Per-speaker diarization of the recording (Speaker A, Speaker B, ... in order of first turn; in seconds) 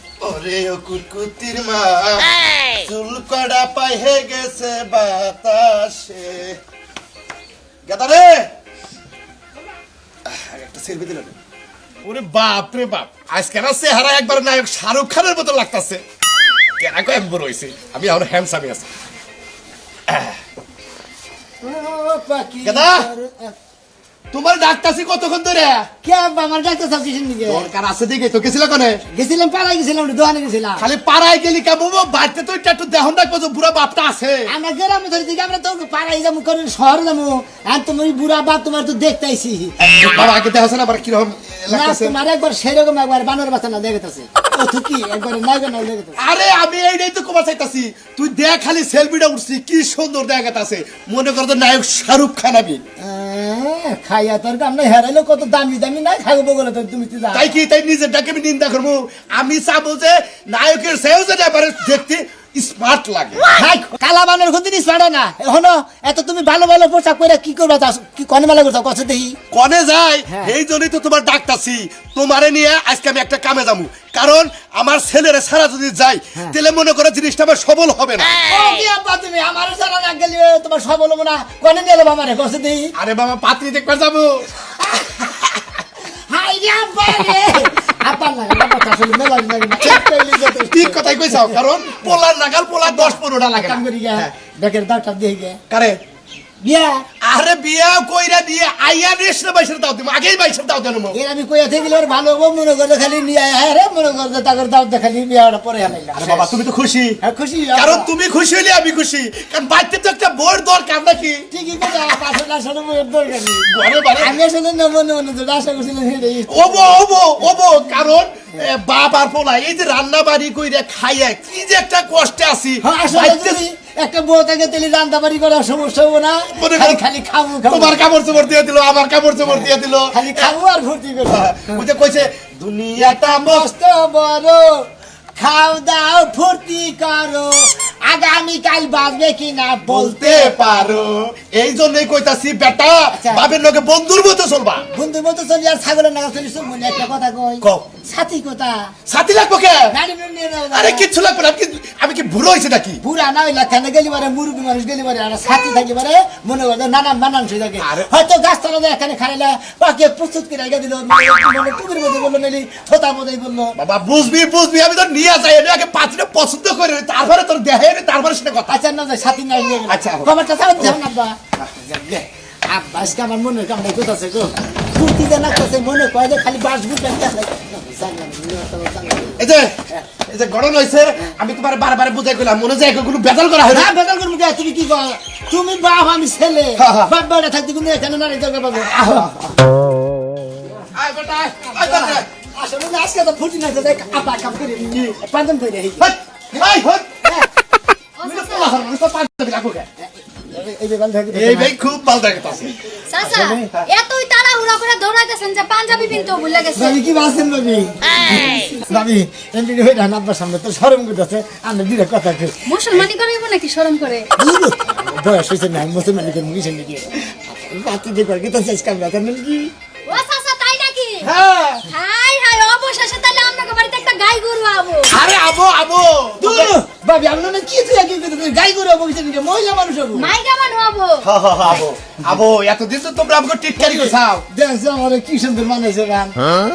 Speaker A: 0.2-6.6, 7.8-8.5, 10.2-11.3, 12.0-16.0, 16.8-18.9, 20.1-20.4, 22.6-23.1, 24.3-25.9, 27.4-29.0, 30.8-34.5, 40.0-42.1, 46.2-52.8, 57.3-63.4, 69.5-78.4, 83.0-84.5, 89.8-94.3, 95.7-96.0, 97.2-101.2, 106.1-107.2, 107.7-111.5, 113.6-114.3, 116.5-123.6, 126.6-127.0, 127.6-130.5, 131.3-133.7, 139.8-144.8, 147.6-147.9, 149.1-149.9, 150.7-153.0, 157.8-158.2, 163.8-168.8, 169.9-171.0, 179.4-183.9, 186.8-187.1, 188.9-189.6, 190.9-192.3, 196.0-197.1, 198.2-199.9, 201.3-202.9, 221.2-221.8, 225.1-226.8, 231.2-234.4
Speaker B: 21.6-23.6, 26.0-27.7, 29.1-30.9, 34.5-40.2, 41.7-46.2, 53.0-57.5, 63.5-69.4, 70.3-70.5, 78.5-82.9, 84.8-85.5, 86.3-91.5, 92.8-95.6, 96.6-97.0, 101.1-106.5, 107.2-108.1, 111.5-117.0, 122.8-128.0, 130.1-131.5, 133.0-140.6, 143.1-143.4, 144.9-148.9, 149.9-151.1, 153.0-163.8, 168.7-179.4, 183.7-189.3, 191.7-196.6, 200.0-201.7, 203.2-203.7, 206.7-212.6, 214.4-219.7, 226.4-230.3, 233.8-236.4
Speaker C: 198.2-198.6, 203.1-206.9, 212.7-214.3, 220.1-221.3, 221.9-225.1, 230.2-231.2